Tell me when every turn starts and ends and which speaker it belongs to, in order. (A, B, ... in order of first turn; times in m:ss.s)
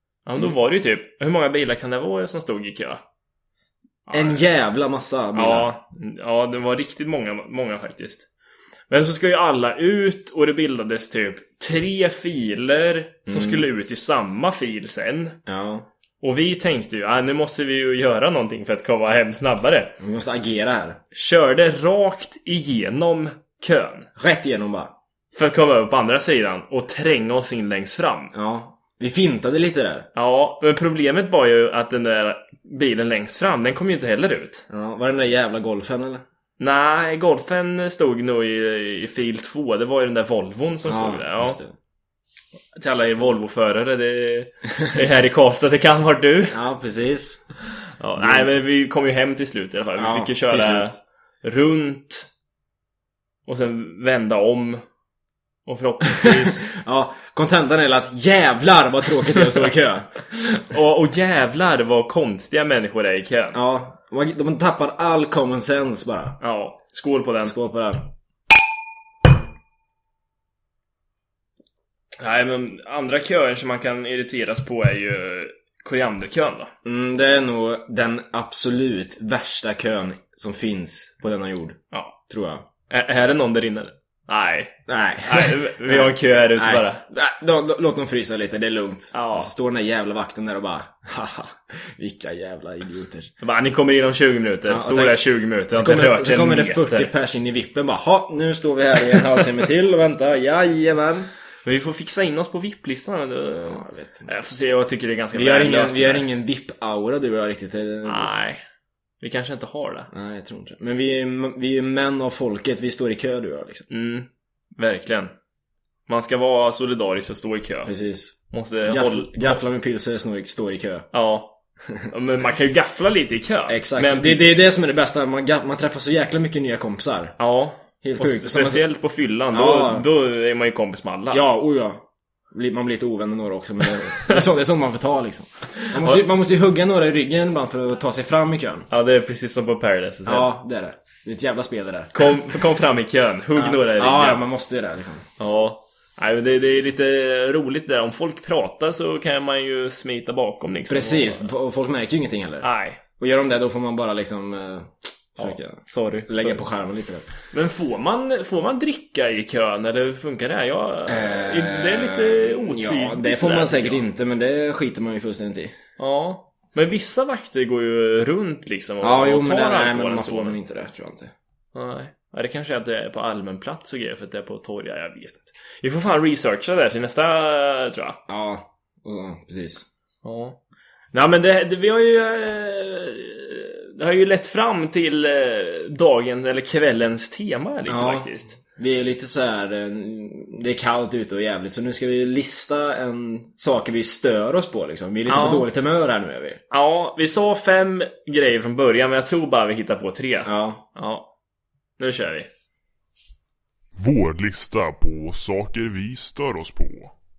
0:00.2-0:03.0 A
0:04.1-0:04.4 A
0:04.1-0:05.7 B
0:05.3-0:08.3 A
0:08.9-0:15.4 A
0:13.3-0:13.7 B
0:15.5-0:15.8 B
0:16.2-0:20.0 A
0:20.0-0:21.0 B
0:21.1-0:24.1 A
0:24.2-0:24.9 B
0:25.3-0:28.3 A
0:28.3-0:30.1 B
0:30.1-0:34.6 A
0:34.7-0:36.2 B
0:36.6-0:41.6 A
0:40.8-0:41.7 B
0:42.7-0:46.6 A
0:46.5-0:47.4 B
0:48.0-0:52.3 A
0:48.2-0:48.5 B
0:50.0-0:51.0 B
0:53.4-0:54.8 A
0:55.6-0:56.7 A
0:56.0-1:00.1 B
1:00.3-1:03.6 A
1:03.5-1:06.4 B
1:06.4-1:07.5 A
1:07.4-1:08.0 B
1:12.2-1:16.7 A
1:16.8-1:22.6 B
1:21.9-1:22.2 A
1:22.9-1:27.0 A
1:24.9-1:33.3 B
1:29.1-1:29.5 A
1:33.4-1:37.1 A
1:34.7-1:41.3 B
1:39.0-1:39.5 A
1:41.6-1:46.2 A
1:43.6-1:44.3 B
1:45.3-1:48.3 B
1:48.0-1:48.6 A
1:49.2-1:50.1 A
1:50.1-1:53.8 B
1:53.9-1:55.3 A
1:56.1-1:57.9 A
1:57.8-2:01.1 B
1:58.5-1:59.6 A
2:01.1-2:01.6 A
2:02.1-2:04.5 A
2:03.7-2:07.4 B
2:07.4-2:11.4 A
2:08.0-2:08.8 B
2:09.5-2:10.1 B
2:11.3-2:18.9 B
2:14.2-2:14.4 A
2:15.8-2:16.2 A
2:18.9-2:20.5 A
2:20.2-2:22.1 B
2:22.1-2:24.5 A
2:23.6-2:25.2 B
2:25.4-2:31.5 A
2:30.9-2:32.7 B
2:32.6-2:33.0 A
2:33.2-2:37.3 B
2:35.4-2:36.6 A
2:37.5-2:44.0 A
2:41.1-2:45.7 B
2:46.0-2:50.6 A
2:49.0-2:51.3 B
2:51.7-2:58.2 A
2:58.3-2:59.8 B
3:00.2-3:00.6 A
3:01.1-3:08.6 A
3:07.8-3:16.6 B
3:15.3-3:15.7 A
3:16.7-3:21.3 A
3:20.4-3:20.8 B
3:22.0-3:22.5 A
3:24.0-3:27.1 C